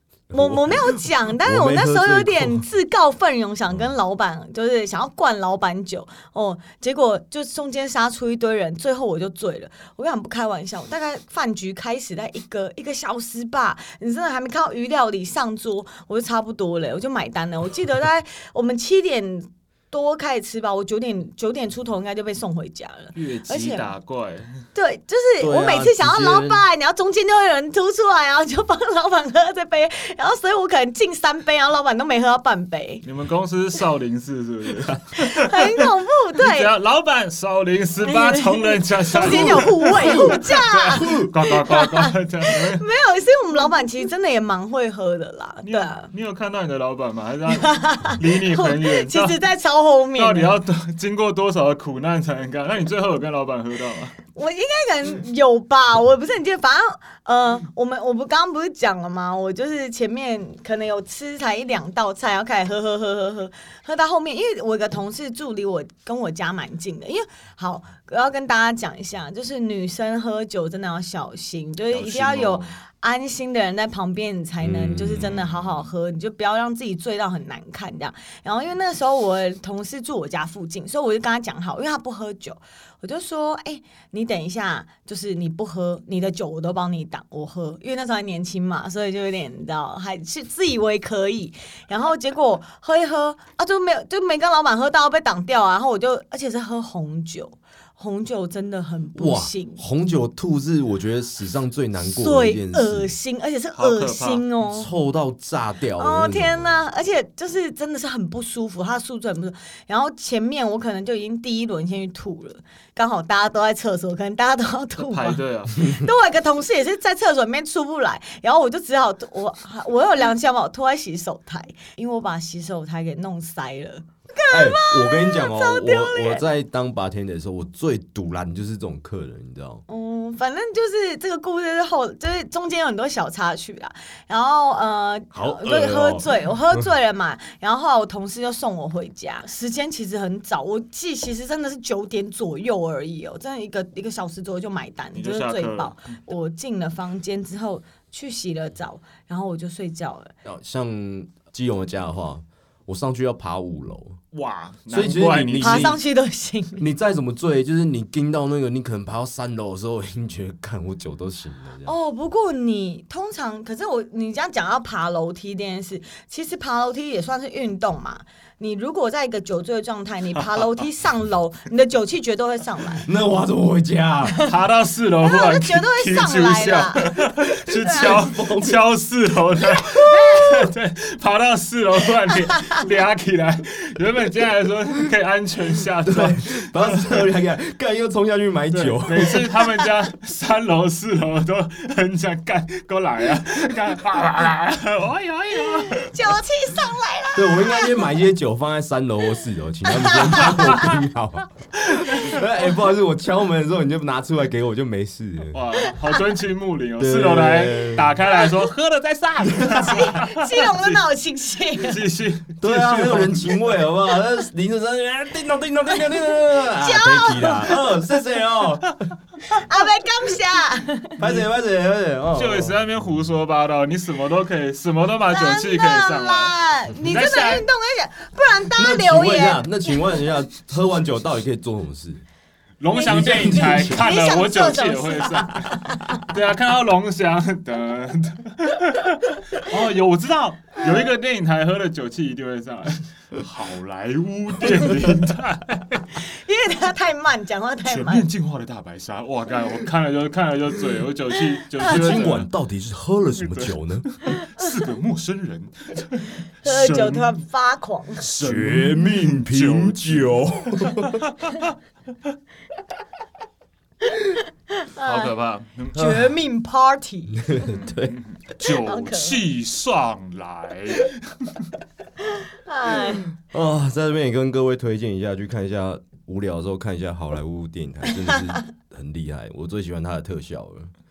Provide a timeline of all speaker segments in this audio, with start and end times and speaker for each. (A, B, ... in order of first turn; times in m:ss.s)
0:00.3-0:02.6 A
0:00.3-0:23.9 B
0:23.2-0:24.6 C
0:24.8-0:33.0 B
0:25.4-0:26.6 A
0:33.0-0:35.8 C
0:35.2-0:36.7 B
0:36.4-0:42.8 C
0:38.0-0:46.1 B
0:39.2-0:40.4 A
0:41.0-0:41.3 A
0:45.6-0:49.4 C
0:47.5-0:50.6 B
0:50.2-0:54.2 C
0:54.4-1:39.8 B
1:11.9-1:12.8 C
1:14.6-1:15.3 A
1:15.2-1:15.9 C
1:39.2-1:43.2 A
1:42.0-1:44.9 B
1:43.8-1:44.4 C
1:44.7-1:46.8 A
1:46.0-2:06.4 B
1:55.0-1:55.8 C
2:04.5-2:09.8 A
2:09.9-2:30.3 B
2:15.3-2:16.4 A
2:25.2-2:26.1 C
2:30.4-2:34.2 A
2:34.3-2:36.0 C
2:34.9-2:36.0 A
2:35.6-2:36.8 B
2:36.8-2:41.9 A
2:41.8-2:53.1 B
2:53.1-2:54.4 A
2:54.4-3:07.3 C
2:55.2-2:57.1 B
2:57.7-2:58.8 A
2:57.8-2:58.2 B
2:59.9-3:00.6 B
3:06.0-3:09.5 A
3:08.7-3:16.3 C
3:15.7-3:18.1 B
3:17.4-3:25.6 A
3:19.9-3:20.9 B
3:20.6-3:20.9 C
3:22.0-3:22.4 C
3:25.5-3:31.0 C
3:25.8-3:26.2 B
3:27.0-3:28.1 A
3:29.6-3:29.9 A
3:29.8-3:32.0 B
3:31.8-3:33.6 C
3:32.6-3:39.0 A
3:36.8-3:37.7 B
3:39.5-3:41.1 B
3:41.2-3:42.8 A
3:41.2-3:41.4 C
3:42.4-3:47.7 C
3:45.3-3:50.2 B
3:48.8-3:52.2 A
3:52.8-4:06.2 C
3:52.9-3:56.2 B
3:53.1-3:54.0 A
4:06.2-4:08.3 B
4:07.9-4:12.5 C
4:11.8-4:14.1 A
4:13.3-4:17.4 C
4:16.6-4:18.3 B
4:18.2-4:21.6 C
4:18.4-4:21.2 A
4:24.1-4:25.3 B
4:25.0-4:26.1 C
4:25.9-4:27.6 B
4:27.3-4:28.2 A
4:27.7-4:31.7 C
4:28.6-4:29.4 B
4:32.4-4:33.3 B
4:33.5-4:40.9 A